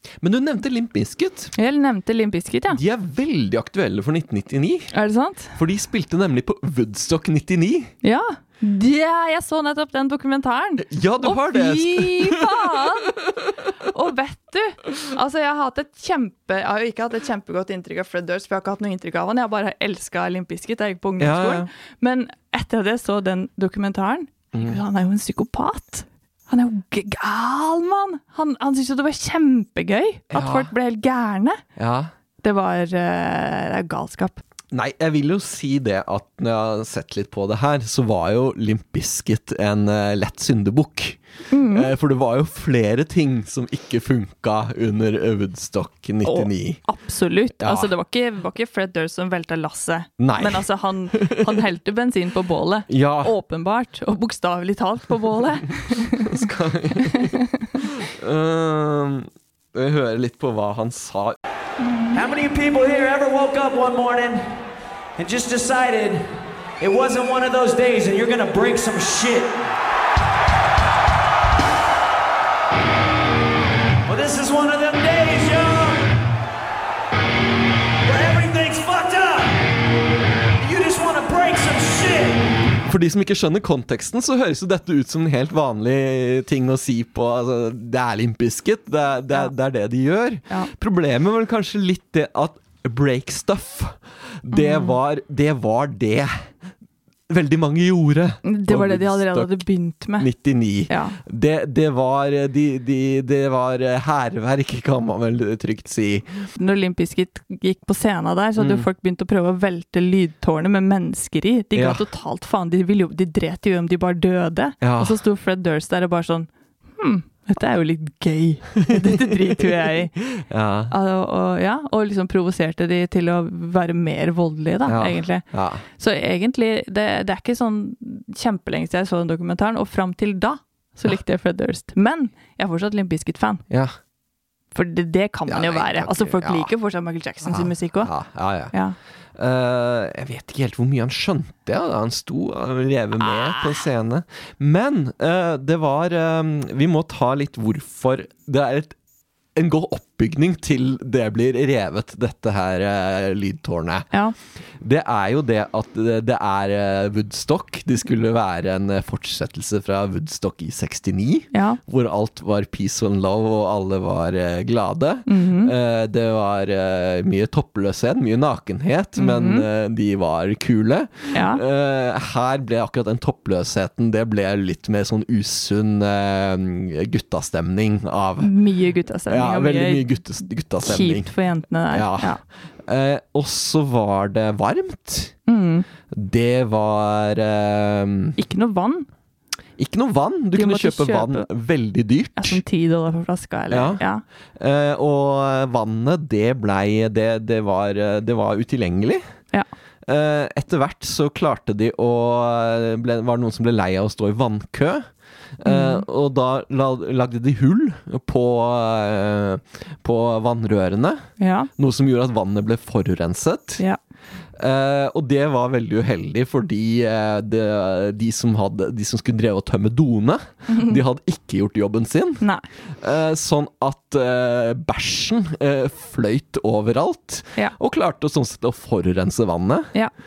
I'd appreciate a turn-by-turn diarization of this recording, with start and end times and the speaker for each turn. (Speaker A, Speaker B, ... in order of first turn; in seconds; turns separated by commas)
Speaker A: 0.2-1.5, Speaker B: 1.6-2.8, Speaker A: 2.7-4.9, Speaker B: 4.9-5.6, Speaker A: 5.5-7.9, Speaker B: 8.0-13.2, Speaker A: 10.8-13.6, Speaker B: 13.8-31.6, Speaker A: 21.2-21.7, Speaker A: 24.5-24.8, Speaker A: 30.3-30.7, Speaker A: 31.8-32.1, Speaker B: 32.4-34.4, Speaker A: 34.7-46.8, Speaker B: 41.5-41.9, Speaker B: 46.2-56.5, Speaker A: 47.6-47.9, Speaker A: 50.2-51.5, Speaker A: 52.9-53.3, Speaker A: 56.1-61.4, Speaker B: 57.0-57.7, Speaker C: 62.1-64.5, Speaker C: 65.2-69.6, Speaker C: 74.1-76.1, Speaker C: 78.0-79.6, Speaker C: 80.6-82.6, Speaker A: 82.8-96.5, Speaker B: 94.5-95.0, Speaker A: 97.3-99.6, Speaker B: 98.5-100.3, Speaker A: 100.2-106.5, Speaker B: 100.9-101.2, Speaker B: 106.6-120.2, Speaker A: 108.6-108.9, Speaker A: 111.8-112.0, Speaker A: 114.8-115.2, Speaker A: 118.8-119.6, Speaker A: 120.2-120.9, Speaker B: 120.9-133.6, Speaker A: 124.9-125.8, Speaker A: 133.7-133.9, Speaker B: 134.7-138.1, Speaker A: 135.5-136.7, Speaker A: 137.4-138.7, Speaker A: 139.4-149.0, Speaker B: 143.6-143.8, Speaker A: 149.6-154.1, Speaker A: 154.8-178.5, Speaker B: 161.5-161.8, Speaker B: 165.3-165.7, Speaker B: 169.2-169.7, Speaker B: 171.3-171.6, Speaker B: 178.4-180.1, Speaker A: 179.3-181.3, Speaker B: 180.8-182.4, Speaker A: 181.9-182.4, Speaker A: 182.9-185.3, Speaker B: 185.5-185.9, Speaker A: 186.1-188.4, Speaker B: 188.4-189.1, Speaker A: 189.8-192.6, Speaker B: 190.6-191.5, Speaker B: 192.4-194.2, Speaker A: 193.7-194.0, Speaker A: 194.6-199.2, Speaker A: 200.1-205.1, Speaker A: 205.6-211.3, Speaker B: 205.7-206.1, Speaker B: 211.4-211.7, Speaker A: 211.8-213.8, Speaker A: 214.6-222.4, Speaker A: 223.0-229.9